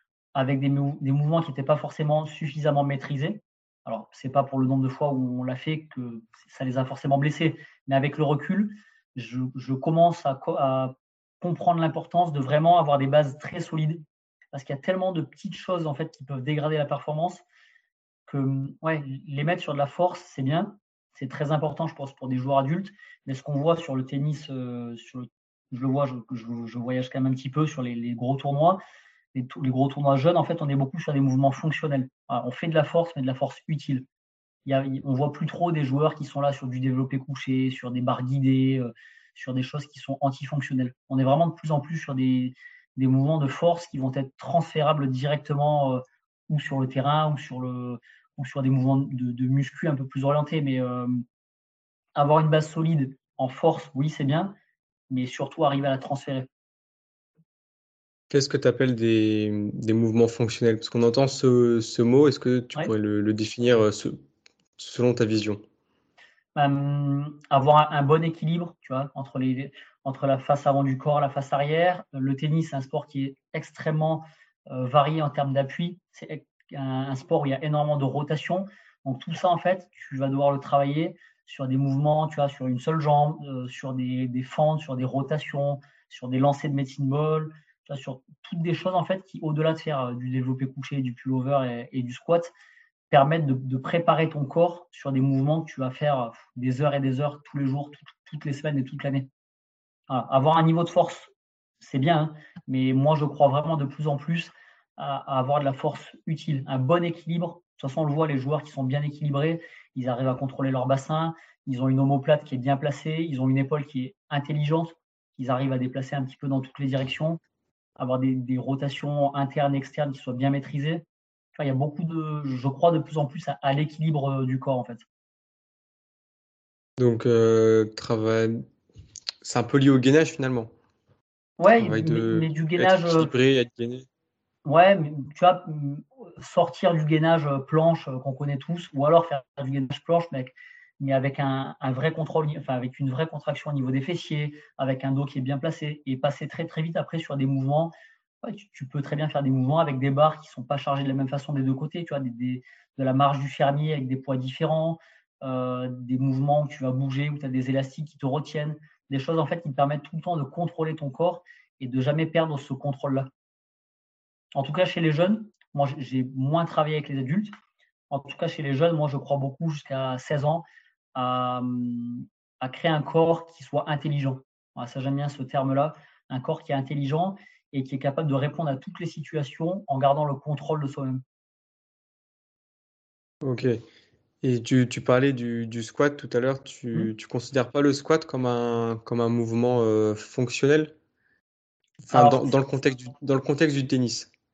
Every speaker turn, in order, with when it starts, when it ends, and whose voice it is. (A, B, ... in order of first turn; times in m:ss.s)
0:00.3-0:14.0 A
0:14.5-0:17.4 A
0:18.3-0:28.8 A
0:29.3-0:34.0 A
0:34.6-0:51.2 A
0:52.2-0:54.5 A
0:55.1-0:56.5 A
0:58.3-1:04.2 B
1:04.8-1:05.6 B
1:06.5-1:32.5 A
1:33.1-1:39.3 A
1:40.1-1:41.3 A
1:41.8-1:57.4 A
1:58.0-2:01.0 A
2:01.6-2:05.0 A
2:07.0-2:08.6 B
2:09.4-2:10.7 B
2:11.6-2:13.3 A
2:11.8-2:14.1 B
2:14.6-2:43.3 A
2:44.5-2:47.5 A
2:48.1-3:01.2 A
3:03.4-3:03.8 B
3:04.4-3:10.9 B
3:12.1-3:14.3 B
3:12.1-3:12.5 A